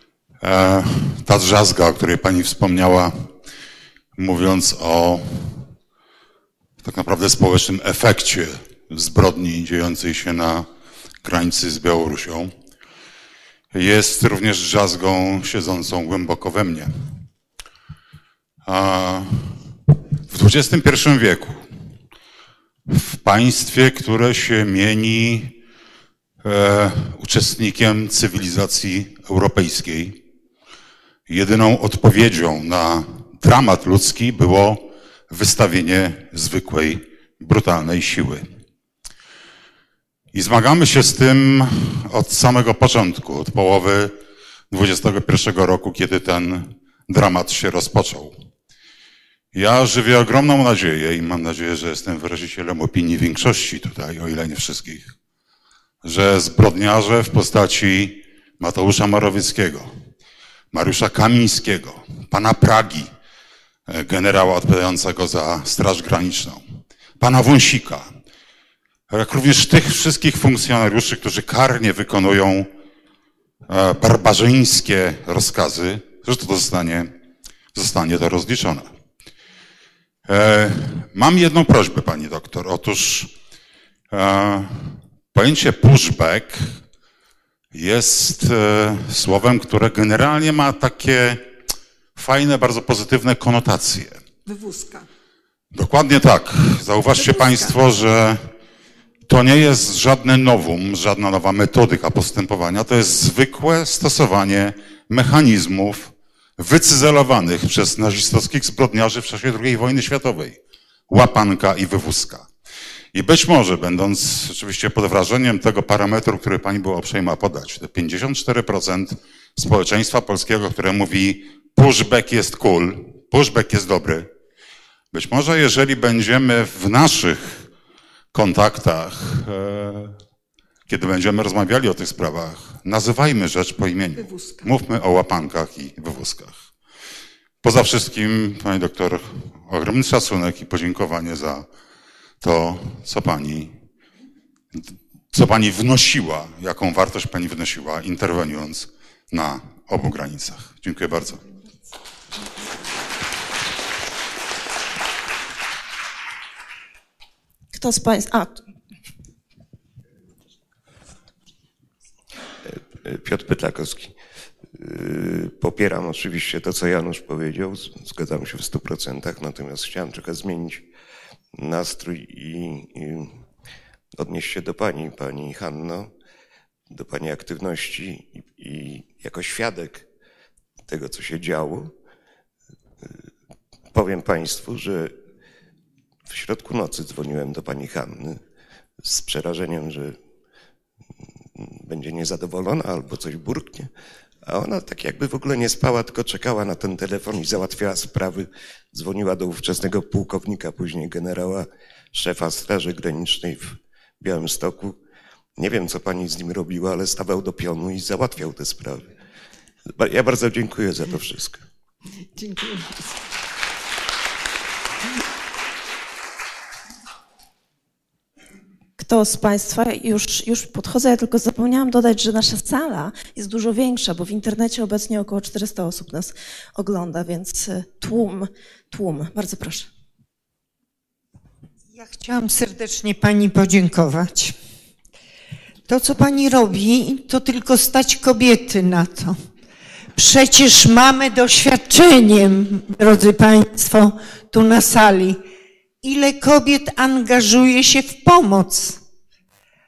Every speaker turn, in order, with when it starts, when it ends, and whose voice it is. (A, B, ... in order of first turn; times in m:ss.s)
0:00.4-0:03.3 A
0:04.2-0:05.7 A
0:06.8-0:10.7 A
0:11.2-0:12.5 A
0:13.7-0:16.9 A
0:18.6-0:19.7 A
0:20.3-0:21.7 A
0:22.9-0:25.5 A
0:26.4-0:30.2 A
0:31.3-0:38.5 A
0:40.3-0:44.1 A
0:44.7-0:48.3 A
0:49.5-0:55.1 A
0:56.0-0:59.9 A
1:00.7-1:03.1 A
1:03.9-1:06.6 A
1:07.2-1:08.1 A
1:09.1-1:12.7 A
1:13.7-1:17.1 A
1:17.7-1:18.9 A
1:20.2-1:23.3 A
1:24.1-1:26.7 A
1:27.7-1:31.5 A
1:32.2-1:34.2 A
1:34.4-1:35.0 B
1:35.7-1:38.5 A
1:37.1-1:37.8 B
1:39.3-1:52.5 A
1:53.1-2:04.3 A
2:05.1-2:07.7 A
2:08.3-2:10.2 A
2:10.9-2:16.6 A
2:14.2-2:14.7 B
2:17.6-2:21.6 A
2:22.4-2:23.7 A
2:24.8-2:31.4 A
2:37.7-2:38.6 C
2:42.6-2:44.2 D
2:44.7-2:50.8 D
2:51.6-2:53.3 D
2:54.2-2:56.1 D
2:56.9-3:00.0 D
3:00.9-3:01.9 D
3:03.9-3:05.2 D
3:06.3-3:08.4 D
3:09.0-3:10.2 D
3:11.5-3:13.9 D
3:14.4-3:25.0 D
3:25.6-3:29.1 D
3:29.9-3:31.6 D
3:32.4-3:33.1 B
3:39.0-3:49.9 C
3:51.9-3:54.5 E
3:55.9-3:59.4 E
4:00.2-4:05.4 E
4:06.0-4:09.0 E